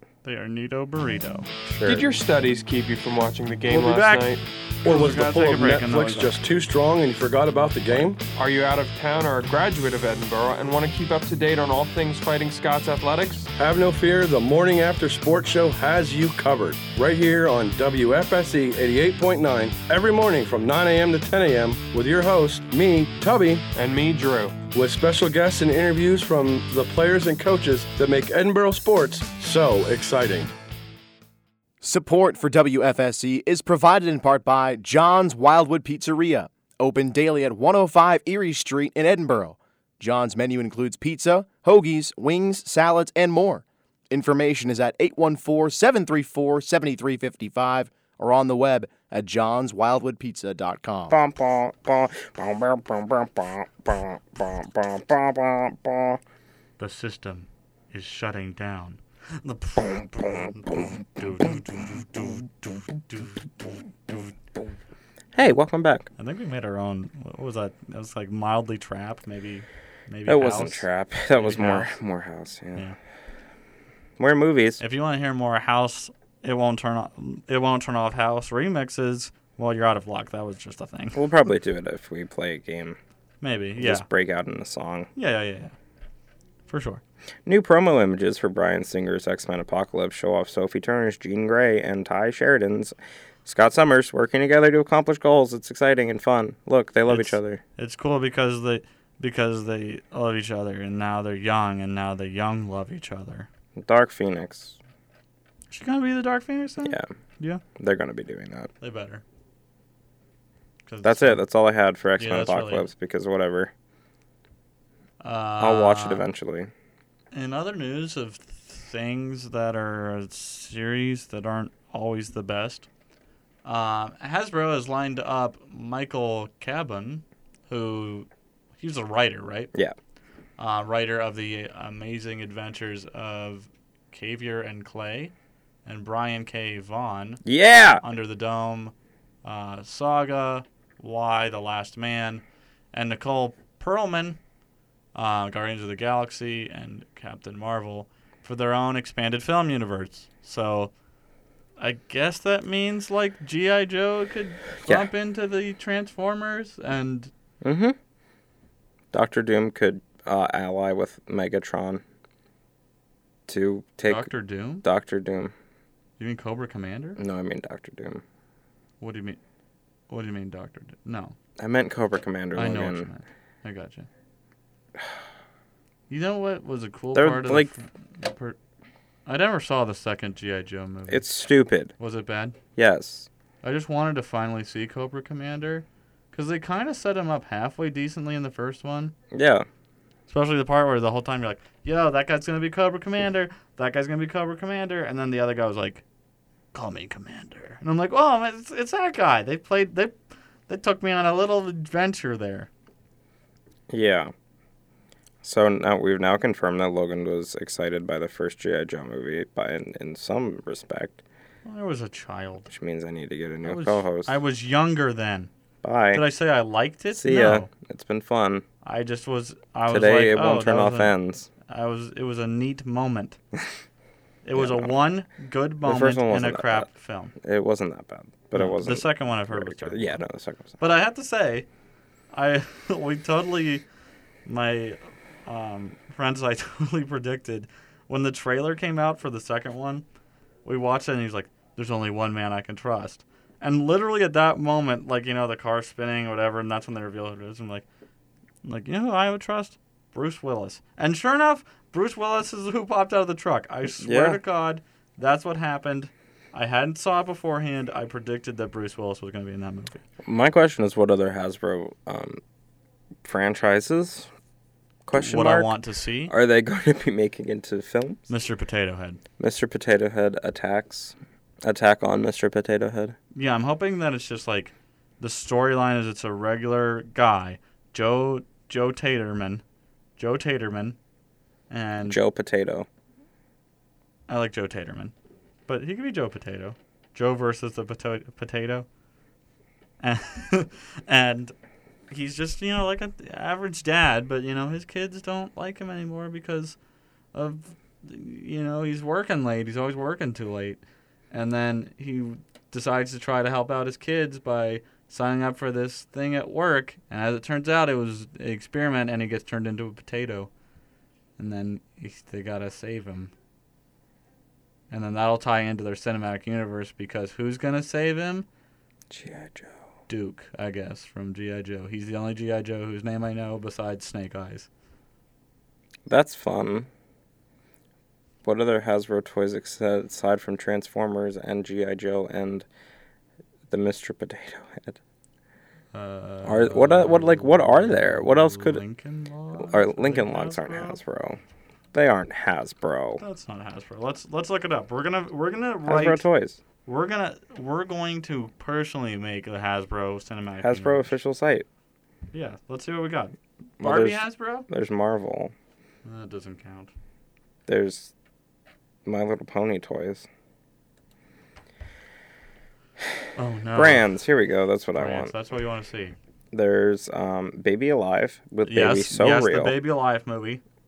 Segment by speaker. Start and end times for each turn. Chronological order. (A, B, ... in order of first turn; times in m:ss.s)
0:00.2-0:01.5 A
0:01.6-0:02.1 B
0:01.8-0:04.4 C
0:03.7-0:06.3 A
0:04.8-0:08.2 D
0:08.4-0:13.5 C
0:13.6-0:23.6 D
0:23.7-0:24.6 C
0:24.7-0:30.5 D
0:31.8-0:51.1 E
0:51.1-0:56.2 B
0:56.8-1:04.3 A
1:05.3-1:06.1 B
1:06.2-1:11.9 A
1:10.3-1:12.9 B
1:14.2-1:14.8 B
1:14.8-1:21.2 A
1:21.1-1:23.0 B
1:23.4-1:24.1 A
1:23.8-1:25.1 B
1:25.2-1:25.7 A
1:26.7-1:27.0 A
1:27.4-1:37.6 B
1:37.1-1:43.5 A
1:43.8-1:44.8 B
1:45.7-1:47.6 A
1:47.8-1:48.7 B
1:48.8-1:49.2 A
1:50.8-1:51.4 A
1:51.0-1:53.7 B
1:52.2-1:52.9 A
1:55.2-1:56.3 A
1:55.6-1:56.7 B
1:57.3-2:02.9 A
2:03.6-2:09.7 A
2:10.6-2:15.3 A
2:15.8-2:17.4 A
2:17.4-2:18.0 B
2:18.0-2:24.4 A
2:25.1-2:30.9 A
2:31.8-2:37.3 A
2:37.6-2:38.0 B
2:39.1-2:42.0 B
2:43.5-2:44.3 B
2:44.0-2:44.8 A
2:44.8-2:45.5 B
2:46.2-2:47.2 A
2:47.2-2:48.2 B
2:49.0-2:49.4 A
2:50.1-2:51.3 A
2:51.6-2:53.1 B
2:52.5-2:54.1 A
2:56.1-2:58.6 A
2:57.1-2:57.7 B
2:59.2-3:01.2 A
3:01.1-3:01.9 B
3:02.0-3:02.6 A
3:02.8-3:03.3 B
3:03.6-3:09.1 A
3:09.3-3:09.7 B
3:10.3-3:16.0 A
3:16.7-3:22.7 A
3:23.9-3:24.3 B
3:25.4-3:31.2 B
3:31.6-3:32.7 A
3:32.7-3:34.4 B
3:33.6-3:35.5 A
3:35.8-3:36.2 B
3:36.1-3:37.7 A
3:37.1-3:38.6 B
3:38.8-3:41.1 A
3:39.9-3:41.5 B
3:41.6-3:43.4 A
3:44.4-3:47.3 A
3:44.5-3:44.9 B
3:45.8-3:46.9 B
3:47.4-3:50.8 B
3:48.5-3:50.2 A
3:50.8-3:51.7 A
3:52.3-3:53.8 A
3:54.4-4:00.0 A
4:00.6-4:07.8 A
4:08.6-4:20.0 A
4:14.0-4:14.4 B
4:20.2-4:22.4 B
4:23.2-4:24.3 B
4:25.0-4:25.7 B
4:25.1-4:26.3 A
4:26.3-4:28.3 B
4:28.3-4:29.2 A
4:29.4-4:33.2 B
4:33.3-4:39.6 A
4:40.2-4:41.0 A
4:41.7-4:42.2 A
4:42.0-4:42.9 B
4:44.3-4:45.1 A
4:45.7-4:48.9 A
4:50.0-4:51.5 A
4:52.1-4:56.8 A
4:57.3-5:10.5 A
5:11.4-5:13.3 A
5:14.9-5:18.5 A
5:19.1-5:19.8 B
5:20.1-5:24.7 A
5:26.1-5:26.9 B
5:28.4-5:32.6 B
5:33.7-5:35.0 B
5:35.9-5:41.0 A
5:36.4-5:38.8 B
5:39.6-5:41.4 B
5:41.9-5:43.2 B
5:43.2-5:46.2 A
5:45.8-5:46.6 B
5:46.8-5:51.1 A
5:50.6-5:51.6 B
5:52.3-5:54.7 A
5:53.8-5:55.5 B
5:56.0-5:56.9 A
5:57.7-5:58.1 B
5:59.0-6:00.3 B
6:03.4-6:04.0 A
6:03.7-6:05.3 B
6:05.0-6:06.2 A
6:06.5-6:09.8 B
6:08.6-6:10.6 A